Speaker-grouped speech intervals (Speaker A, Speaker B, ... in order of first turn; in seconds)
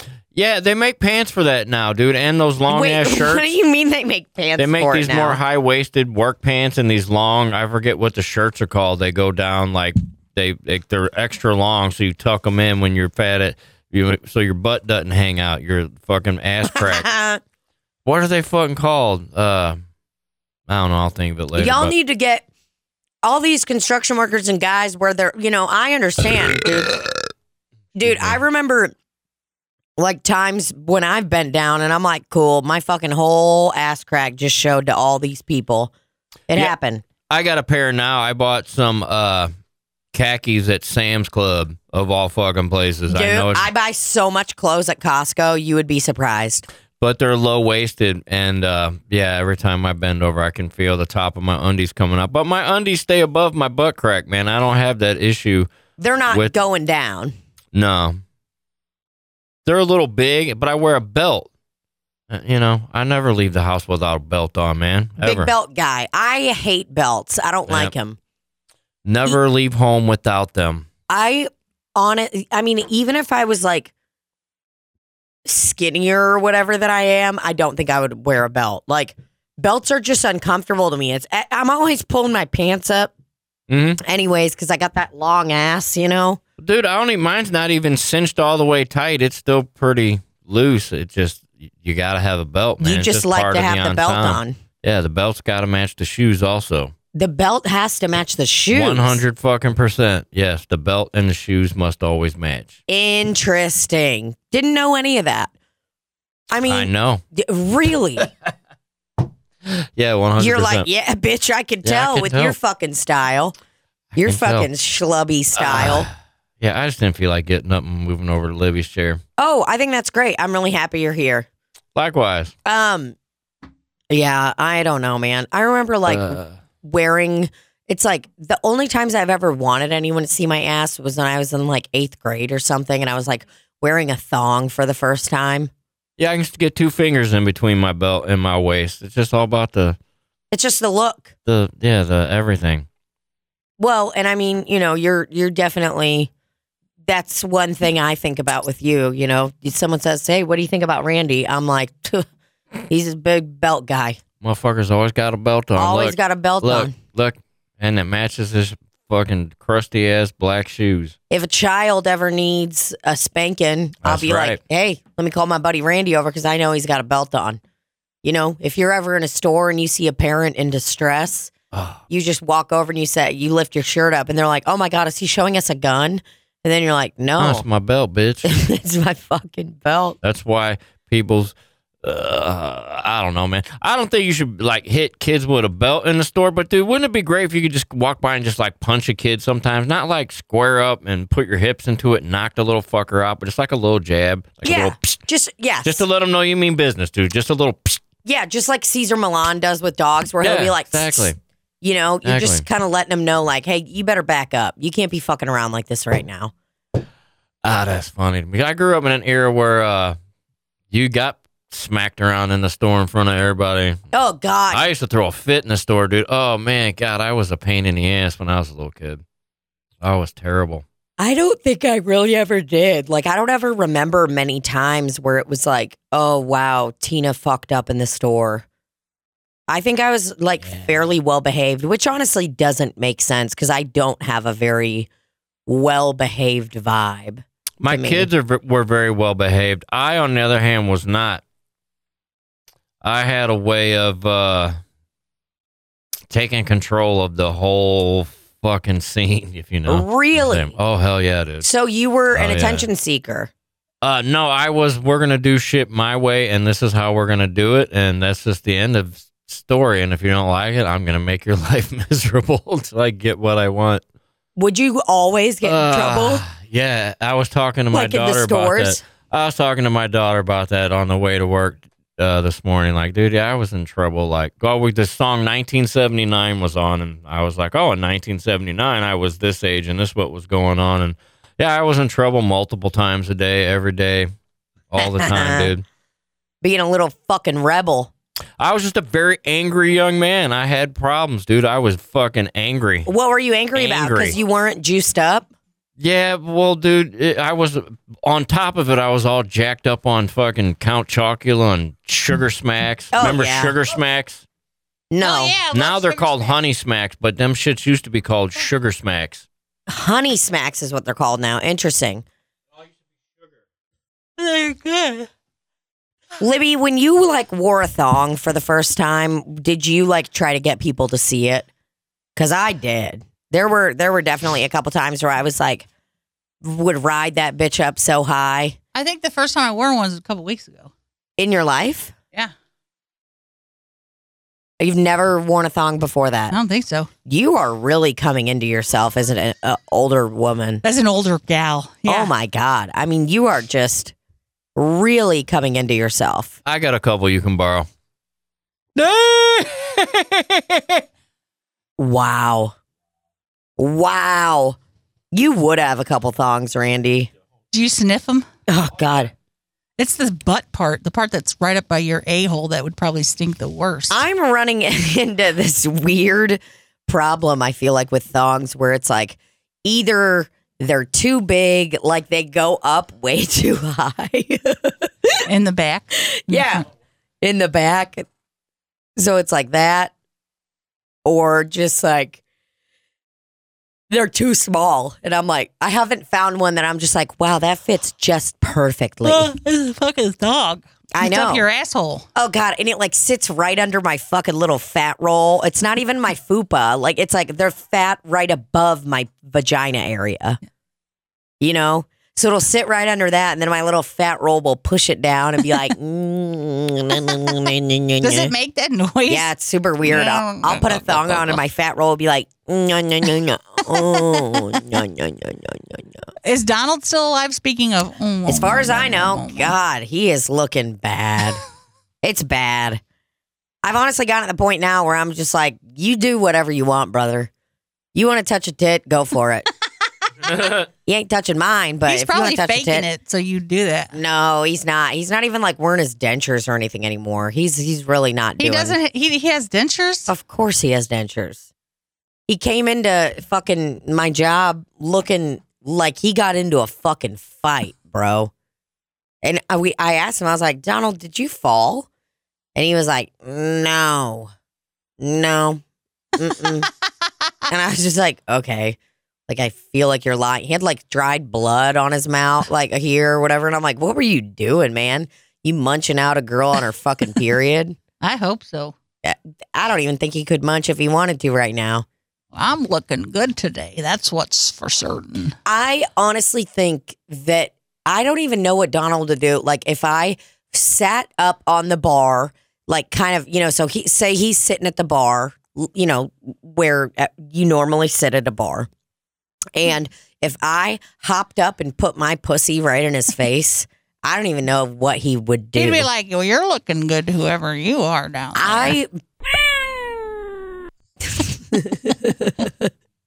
Speaker A: 0.3-3.4, 4.6-17.1, 18.1-19.8, 20.7-21.9, 28.0-28.4, 37.3-39.5, 40.1-43.7, 47.0-55.7, 57.7-58.2, 59.6-61.5, 62.3-65.5, 67.7-67.9, 69.0-70.9, 83.7-84.0, 86.6-96.9, 98.7-102.8, 106.7-107.2, 109.7-110.9, 111.8-112.5, 114.2-114.7, 115.6-119.2, 122.0-122.5, 126.1-126.5, 136.2-140.0, 141.4-142.9, 154.4-161.1, 164.0-164.6, 171.7-172.0, 177.4-178.6, 180.2-195.2, 195.8-198.0, 200.4-201.4, 202.2-202.6, 207.6-210.2, 210.9-214.0, 214.7-219.2, 220.0-220.8, 237.8-241.4, 243.0-244.8, 246.3-251.7, 252.3-252.9, 254.0-264.0, 265.6-284.3, 284.9-285.8, 288.6-293.1, 293.7-294.4, 296.0-304.4, 305.7-309.4, 346.6-347.9
Speaker B: 2.7-5.4, 16.7-17.4, 21.6-22.4, 23.2-26.9, 27.9-28.9, 30.0-35.9, 36.5-37.0, 43.1-46.6, 56.0-57.3, 65.2-68.2, 71.1-73.9, 75.4-83.1, 84.0-86.4, 92.8-94.6, 97.1-99.2, 102.9-105.5, 106.5-108.3, 110.4-113.5, 114.1-116.1, 119.4-121.5, 122.6-123.2, 124.1-135.7, 140.5-141.3, 143.8-146.3, 147.0-152.3, 152.9-154.2, 155.8-157.0, 161.3-167.6, 168.2-171.5, 172.1-177.6, 178.4-180.2, 194.6-196.1, 198.2-201.3, 201.8-206.5, 214.1-214.9, 221.2-228.6, 229.7-235.1, 235.7-238.3, 249.9-250.7, 251.6-253.5, 264.6-266.4, 267.9-269.0, 285.0-285.7, 286.6-288.1, 293.1-295.5, 303.1-303.7, 305.1-305.6, 309.9-312.2, 316.4-321.7, 322.4-325.9, 326.6-328.8, 331.4-332.1, 334.8-336.6, 337.3-340.8, 342.1-344.1, 344.8-346.5, 349.1-349.4, 352.0-352.7, 353.8-354.8, 355.3-357.3, 358.7-359.3, 364.1-375.4, 376.2-376.8, 377.4-378.3, 379.1-380.1, 381.2-382.4, 384.1-389.5, 391.1-391.6, 392.3-400.6, 401.6-408.5, 409.3-416.2, 418.4-421.6, 422.2-423.0, 423.8-427.5, 428.1-429.7, 431.1-433.1, 434.1-439.0, 440.3-441.6, 442.5-448.5, 449.4-452.1, 452.7-454.5, 455.2-455.8, 456.4-456.9, 457.7-459.0, 459.5-468.0, 469.2-472.1, 475.6-488.9, 489.7-496.1, 498.6-499.1, 499.7-500.1, 501.2-502.9
Speaker C: 305.2-306.6, 328.9-330.9, 336.5-337.1, 340.8-342.3, 357.7-358.5, 360.0-364.2, 375.4-376.9, 389.2-392.3, 407.3-407.6, 408.2-409.5, 410.0-411.6, 414.0-414.6, 416.4-419.7, 432.1-434.1, 438.6-440.3, 468.2-468.9, 472.5-475.6, 495.8-499.0